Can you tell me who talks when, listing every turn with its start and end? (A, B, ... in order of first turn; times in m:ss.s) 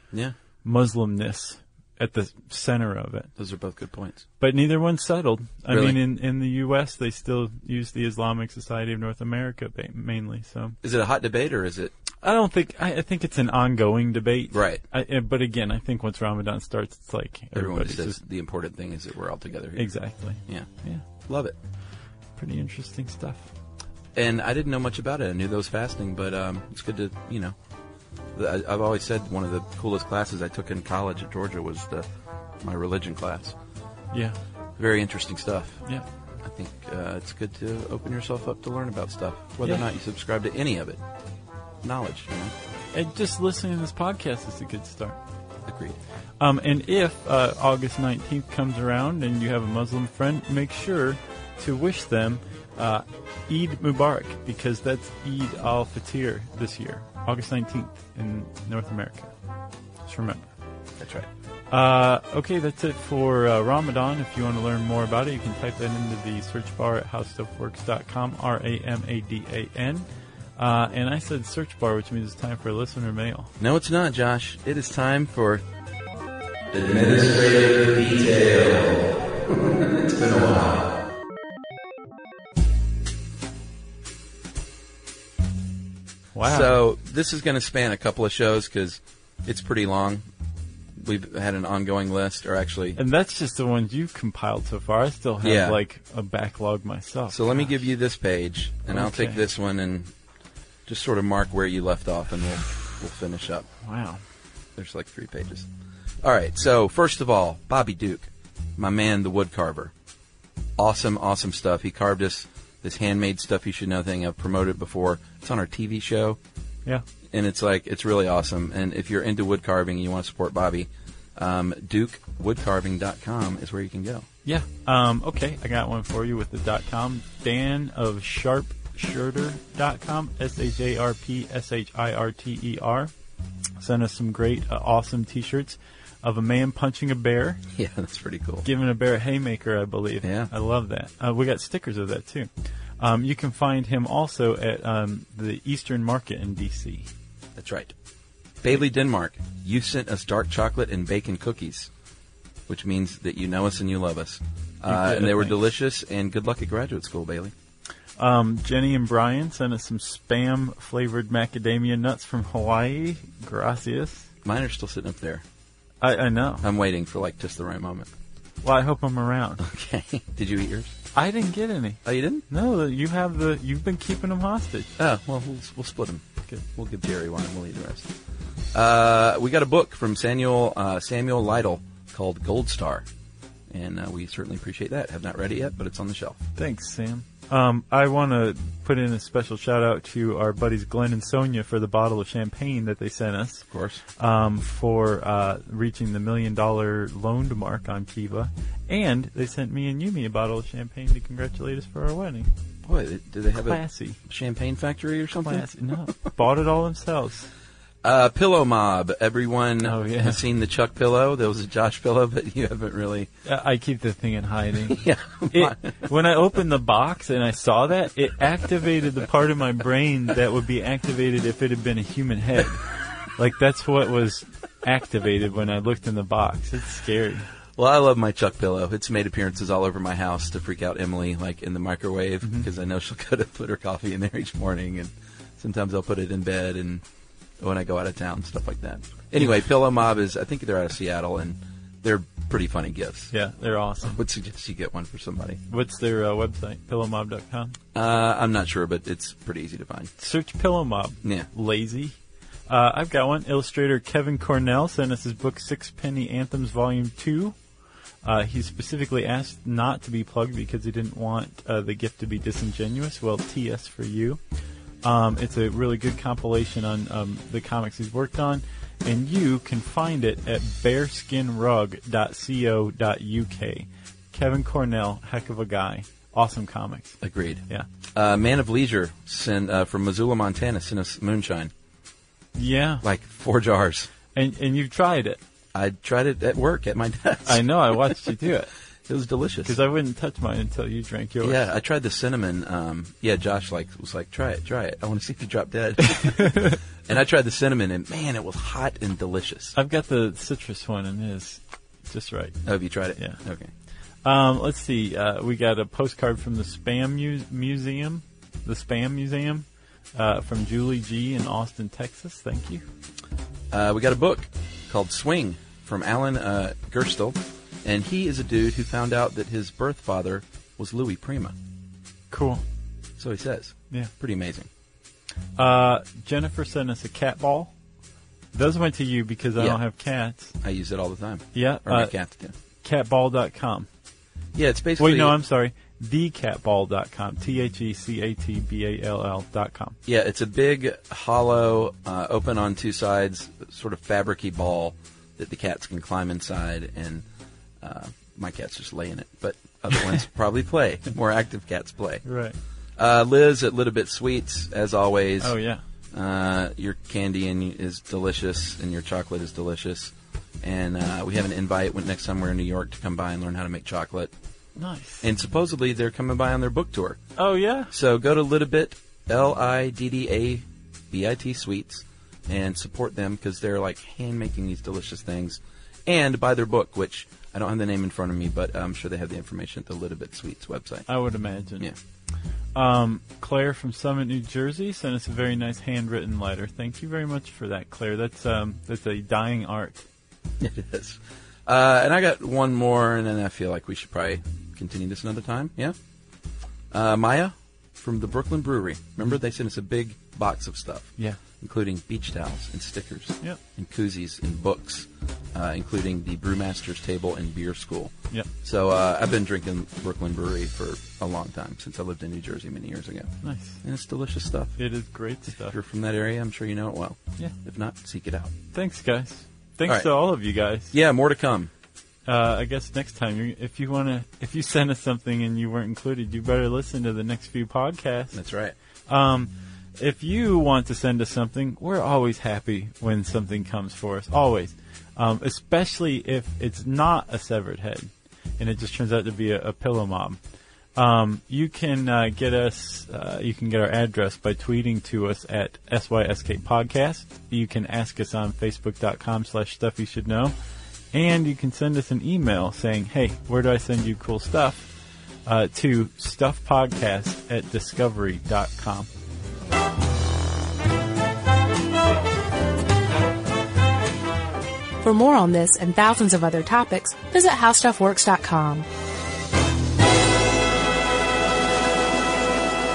0:00.6-0:03.3 A
0:03.4-0:04.2 B
0:04.4-0:10.8 A
0:05.7-0:06.0 B
0:10.8-0:11.9 B
0:12.2-0:18.2 A
0:14.5-0:14.8 B
0:17.5-0:19.9 B
0:19.8-0:21.0 A
0:21.2-0:21.6 B
0:22.4-0:23.5 A
0:24.1-0:27.6 B
0:28.4-0:32.1 B
0:32.6-0:33.6 B
0:34.8-0:35.8 B
0:36.4-0:41.0 B
0:41.8-0:42.6 B
0:42.9-0:45.2 A
0:45.6-0:46.0 B
0:46.4-0:59.3 A
1:00.1-1:00.5 A
1:01.0-1:01.3 B
1:01.7-1:10.0 A
1:10.6-1:13.5 A
1:13.6-1:15.6 B
1:16.7-1:20.9 B
1:26.4-1:26.7 A
1:26.4-1:30.2 B
1:31.0-1:33.0 B
1:33.0-1:37.8 A
1:35.4-1:35.8 B
1:37.3-1:40.1 B
1:38.9-1:39.4 A
1:40.9-1:43.7 B
1:43.8-1:44.2 A
1:44.8-1:45.7 B
1:46.2-1:49.9 B
1:50.8-1:56.4 B
1:57.3-2:04.3 B
2:04.4-2:13.1 A
2:13.8-2:17.6 A
2:17.7-2:18.6 B
2:18.6-2:27.1 A
2:20.2-2:20.5 B
2:27.6-2:27.9 B
2:28.6-2:31.9 B
2:32.7-2:37.5 B
2:34.9-2:35.6 A
2:38.2-2:44.3 A
2:44.4-2:45.4 B
2:46.0-2:46.6 A
2:46.6-2:48.1 B
2:48.6-2:49.6 A
2:49.6-2:51.0 B
2:51.1-2:54.9 A
2:52.0-2:52.4 B
2:55.0-2:58.1 B
2:58.7-3:03.1 B
3:03.7-3:06.4 B
3:06.6-3:22.5 A
3:13.7-3:14.0 B
3:22.8-3:25.8 B
3:23.6-3:24.2 A
3:25.4-3:27.5 A
3:28.0-3:33.3 B
3:29.8-3:30.4 A
3:33.4-3:42.8 A
3:34.9-3:35.9 B
3:43.4-3:47.5 A
3:47.8-3:57.0 B
3:52.4-3:52.7 A
3:57.6-4:03.3 B
4:03.3-4:04.2 A
4:04.1-4:05.6 B
4:05.7-4:07.8 A
4:07.9-4:10.1 B
4:10.2-4:12.2 A
4:12.7-4:17.6 A
4:18.2-4:24.4 A
4:25.0-4:37.9 A
4:37.2-4:41.7 B
4:42.6-4:43.0 A
4:43.0-4:44.1 B
4:44.3-4:45.4 A
4:45.7-4:47.6 B
4:47.5-4:48.7 A
4:49.1-4:49.8 B
4:49.6-4:51.7 A
4:51.4-4:59.8 B
4:56.0-4:56.8 A
4:59.7-5:02.6 A
5:02.6-5:03.7 B
5:04.2-5:12.8 A
5:13.7-5:21.6 B
5:22.3-5:22.6 A
5:23.2-5:24.7 B
5:25.6-5:27.7 A
5:28.5-5:30.6 A
5:30.6-5:32.5 B
5:31.5-5:32.1 A
5:32.8-5:33.9 A
5:34.6-5:35.4 B
5:35.0-5:40.0 A
5:40.1-5:47.2 B
5:47.8-5:52.2 B
5:52.2-5:52.6 A
5:53.0-5:55.6 B
5:55.4-5:55.8 A
5:56.1-6:04.3 B
6:04.8-6:05.3 A
6:05.2-6:07.2 B
6:07.4-6:07.9 A
6:07.9-6:21.1 B
6:21.1-6:21.9 A
6:22.8-6:30.1 A
6:30.6-6:36.0 B
6:36.9-6:54.8 B
6:53.4-6:53.8 A
6:54.8-6:55.8 A
6:55.6-6:58.5 B
6:58.7-7:00.9 A
7:00.9-7:01.7 B
7:02.3-7:08.4 A
7:08.3-7:08.8 B
7:09.1-7:20.4 A
7:21.0-7:30.5 A
7:31.1-7:34.9 A
7:35.5-7:39.1 A
7:45.0-7:48.9 C